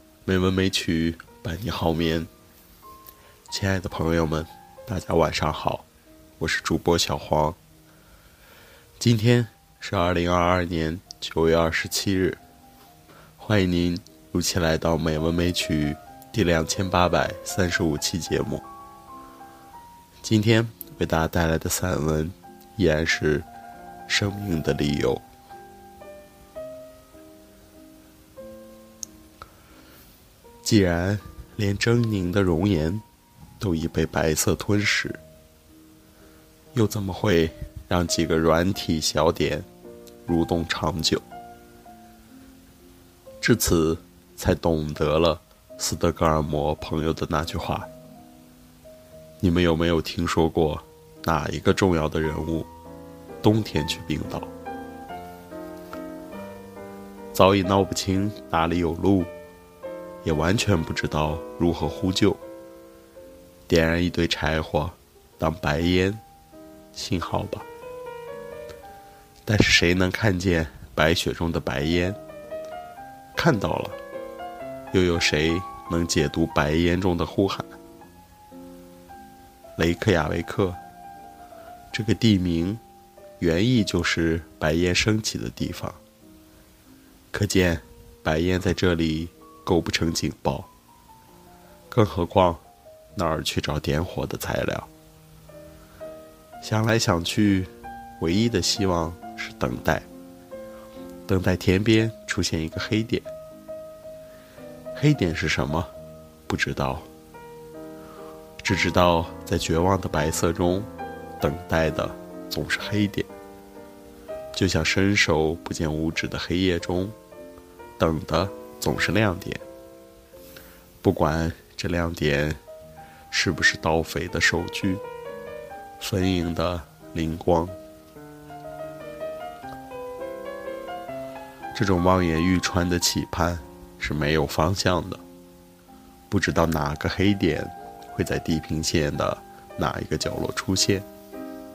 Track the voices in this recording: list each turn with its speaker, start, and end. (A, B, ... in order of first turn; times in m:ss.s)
0:00.3-0:02.3 A
0:03.5-0:05.9 A
0:06.4-0:07.6 A
0:09.0-0:12.4 A
0:13.4-0:18.6 A
0:20.2-0:23.5 A
0:24.1-0:25.2 A
0:30.6-0:33.0 A
0:33.6-0:35.2 A
0:36.7-0:39.7 A
0:40.3-0:41.2 A
0:43.4-0:47.9 A
0:49.4-0:52.7 A
0:53.4-0:54.5 A
0:57.3-0:59.3 A
1:00.2-1:02.4 A
1:03.7-1:06.2 A
1:06.9-1:07.7 A
1:09.5-1:12.2 A
1:13.4-1:14.0 A
1:14.9-1:17.8 A
1:19.8-1:20.8 A
1:21.9-1:22.8 A
1:23.4-1:26.0 A
1:27.3-1:30.7 A
1:31.9-1:32.6 A
1:33.2-1:34.9 A
1:36.6-1:40.1 A
1:41.3-1:43.3 A
1:44.9-1:45.9 A
1:46.5-1:47.1 A
1:48.6-1:50.9 A
1:51.4-1:53.3 A
1:54.5-1:57.2 A
1:58.0-1:59.6 A
2:01.0-2:02.6 A
2:03.3-2:05.0 A
2:06.0-2:07.8 A
2:11.7-2:15.2 A
2:16.3-2:21.1 A